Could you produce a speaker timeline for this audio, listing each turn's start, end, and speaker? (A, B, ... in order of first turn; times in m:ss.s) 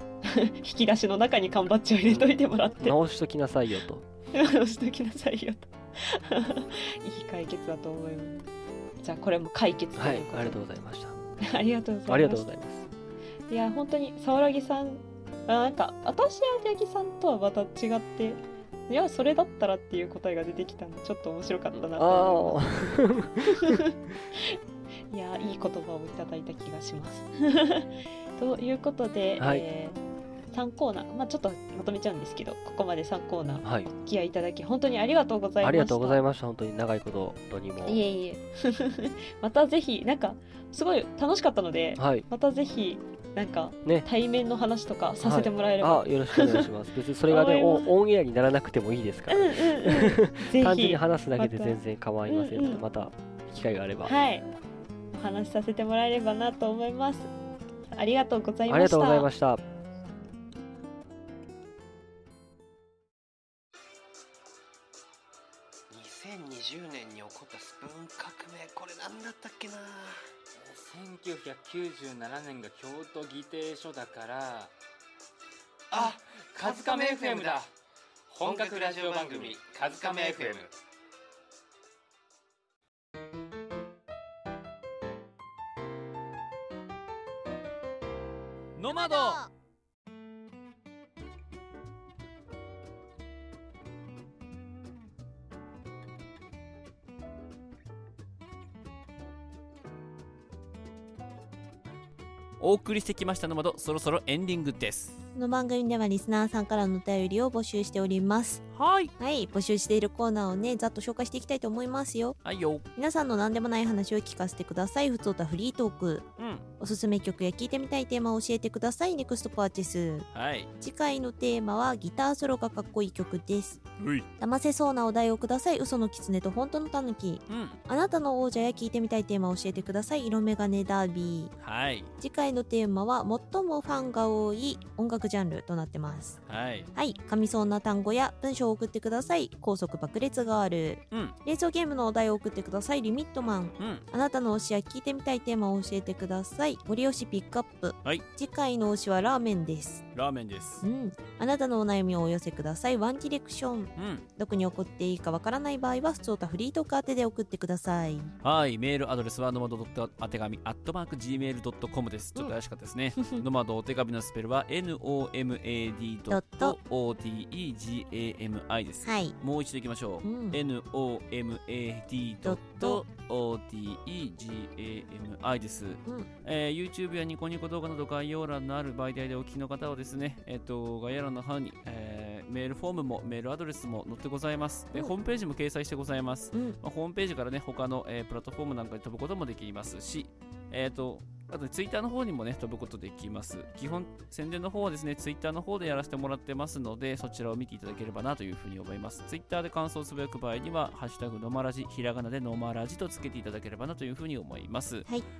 0:00.2-0:03.0 A
0:02.1-0:04.0 B
0:04.3-0:08.4 A
0:09.0-0:10.6 A
0:10.0-0:11.2 B
0:11.4-0:12.5 A
0:12.1-0:12.9 B
0:13.5-0:22.6 A
0:21.7-0:23.8 B
0:23.6-0:24.6 A
0:25.1-0:30.0 A
0:29.4-0:29.6 B
0:30.5-0:36.2 A
0:33.6-0:33.9 B
0:35.6-0:38.0 B
0:37.8-0:46.6 A
0:42.0-0:42.2 B
0:45.2-0:54.1 B
0:47.3-0:47.9 A
0:49.3-0:52.8 A
0:54.0-0:54.4 A
0:55.1-0:57.3 A
0:57.9-0:59.3 A
0:58.7-0:59.6 B
1:05.9-1:10.2 C
1:10.6-1:14.7 D
1:15.9-1:17.5 C
1:16.1-1:17.7 D
1:18.3-1:20.5 C
1:18.4-1:20.7 D
1:28.8-1:29.4 E
1:28.9-1:29.5 F
1:42.6-1:45.2 E
1:45.3-1:48.6 F
1:48.7-1:49.1 E
1:49.2-1:52.4 F
1:52.4-1:52.8 E
1:53.0-1:56.3 F
1:56.4-1:56.6 E
1:56.8-2:00.2 F
2:00.3-2:00.7 E
2:00.8-2:03.8 F
2:04.0-2:04.3 E
2:04.4-2:11.5 F
2:07.5-2:07.8 E
2:11.6-2:12.1 E
2:12.2-2:16.4 F
2:16.5-2:16.9 E
2:16.9-2:30.0 F
2:23.8-2:24.0 E
2:30.1-2:30.8 E
2:30.8-2:38.3 F
2:34.0-2:34.2 E
2:38.4-3:25.1 E
2:46.3-2:46.8 F
2:49.0-2:49.3 F
2:50.2-2:50.6 F
2:52.4-2:53.0 F